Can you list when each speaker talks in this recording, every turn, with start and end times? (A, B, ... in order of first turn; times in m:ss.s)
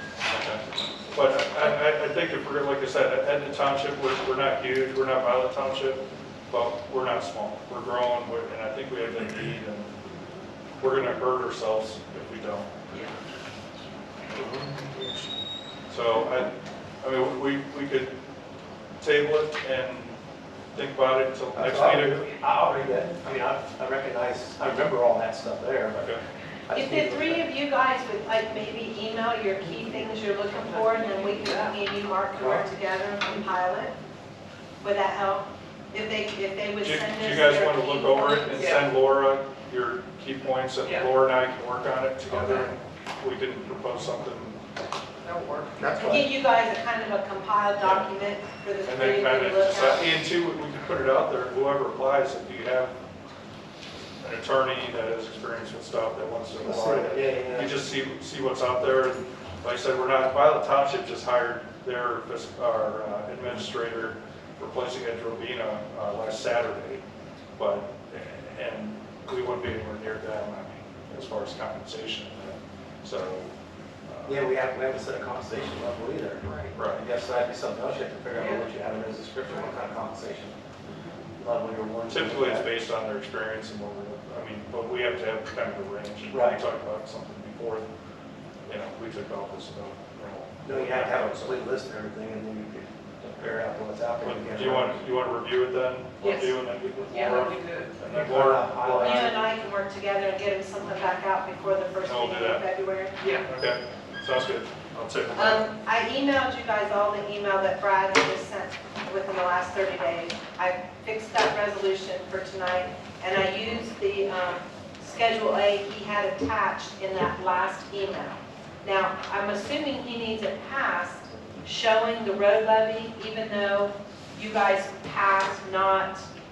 0:00.3-0:09.9 A
0:10.8-0:12.8 A
0:14.4-0:15.2 B
0:15.9-0:18.2 A
0:19.0-0:20.2 A
0:20.7-0:22.3 A
0:21.5-0:26.1 B
0:26.0-0:26.2 A
0:26.7-0:27.4 B
0:26.7-0:33.9 C
0:29.9-0:31.8 D
0:32.4-0:32.7 B
0:34.8-0:38.7 C
0:36.8-0:44.6 A
0:38.6-0:38.9 D
0:40.8-0:41.1 D
0:42.3-0:42.7 D
0:45.2-0:45.8 D
0:45.8-0:46.3 B
0:45.9-0:50.0 C
0:47.8-0:48.1 A
0:48.8-0:53.0 A
0:54.2-1:07.0 A
0:56.6-0:57.8 B
1:07.6-1:13.5 A
1:14.1-1:14.4 A
1:14.2-1:20.6 B
1:16.4-1:16.7 D
1:16.7-1:17.0 A
1:18.3-1:18.7 D
1:20.9-1:21.2 D
1:21.4-1:22.7 B
1:22.1-1:27.9 A
1:26.3-1:26.6 B
1:28.7-1:31.6 A
1:30.6-1:35.0 B
1:34.2-1:39.4 A
1:36.2-1:37.9 D
1:38.1-1:39.5 B
1:39.0-1:43.2 C
1:42.0-1:42.6 A
1:43.2-1:43.4 D
1:43.4-1:45.6 A
1:45.4-2:06.3 C